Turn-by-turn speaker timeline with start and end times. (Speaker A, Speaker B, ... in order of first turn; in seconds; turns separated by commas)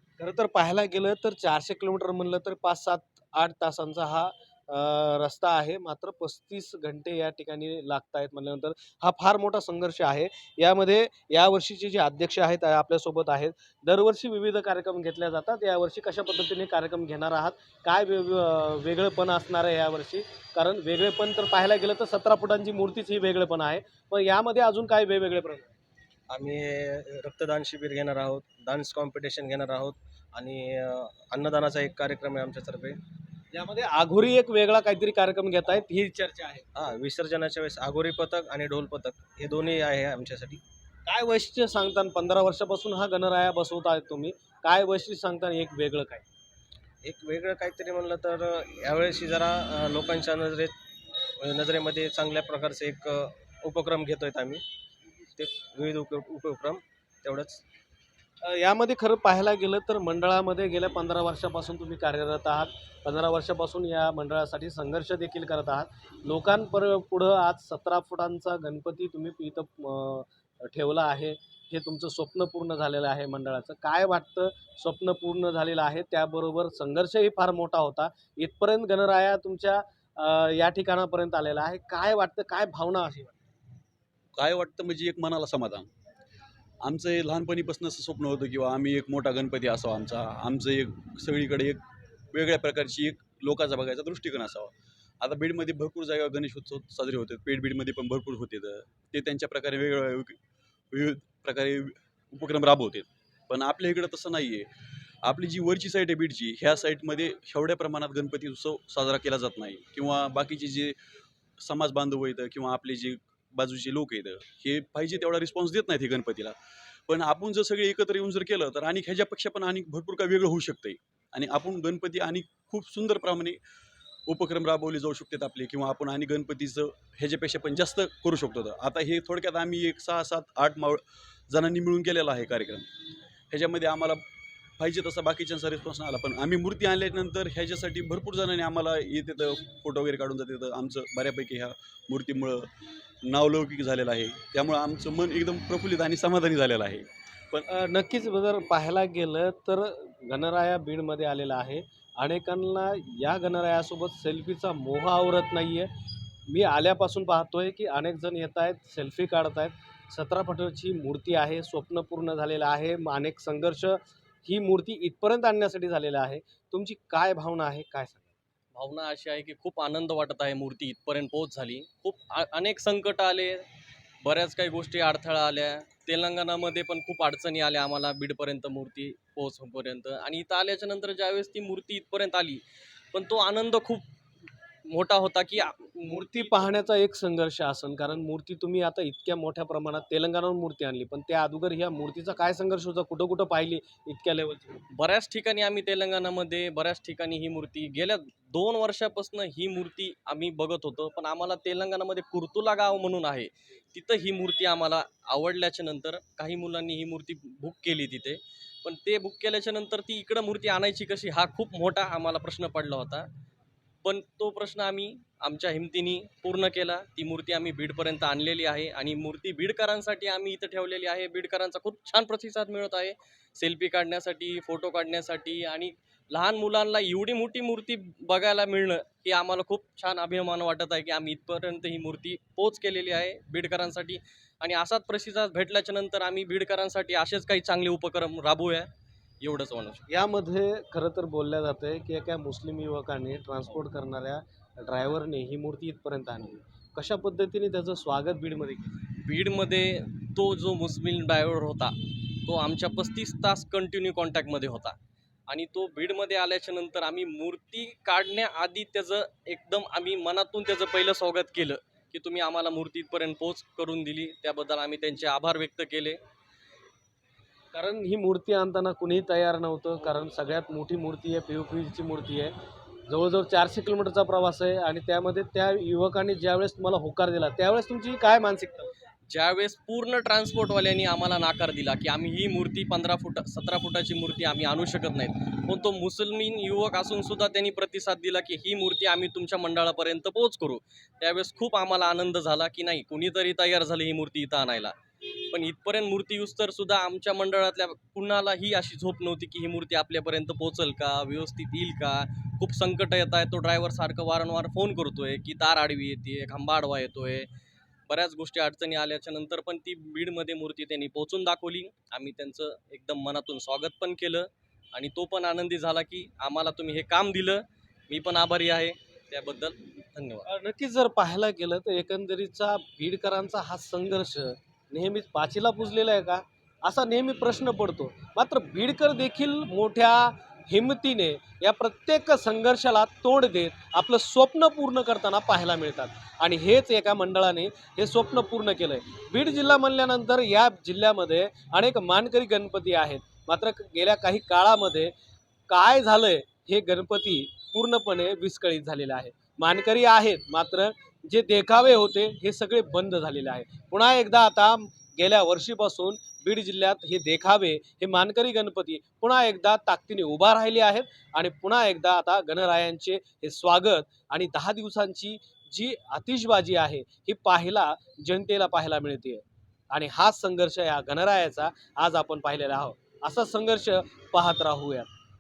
Speaker A: 0.2-25.7, Speaker B: 26.3-33.0, Speaker A: 33.5-36.7, Speaker B: 36.7-40.6, Speaker A: 41.1-46.2, Speaker B: 47.0-50.8, Speaker B: 51.4-54.6, Speaker B: 55.4-57.6, Speaker A: 58.4-83.4, Speaker C: 84.4-85.9, Speaker C: 86.8-91.8, Speaker C: 92.3-100.4, Speaker C: 100.9-104.7, Speaker C: 105.2-111.0, Speaker C: 111.6-116.6, Speaker C: 117.1-123.6, Speaker C: 124.3-132.9, Speaker C: 133.5-134.2, Speaker C: 134.8-142.7, Speaker C: 143.2-147.7, Speaker A: 147.7-155.9, Speaker A: 156.5-168.3, Speaker D: 168.7-173.7, Speaker D: 174.2-184.1, Speaker D: 184.9-186.6, Speaker A: 186.1-194.8, Speaker D: 194.9-213.3, Speaker D: 214.0-240.1, Speaker A: 240.1-248.9, Speaker D: 249.1-255.0, Speaker D: 255.5-266.2, Speaker A: 267.7-272.5, Speaker A: 273.1-278.9, Speaker D: 279.3-295.0, Speaker D: 295.5-307.5, Speaker D: 308.1-320.5, Speaker A: 320.5-345.1, Speaker A: 345.7-375.1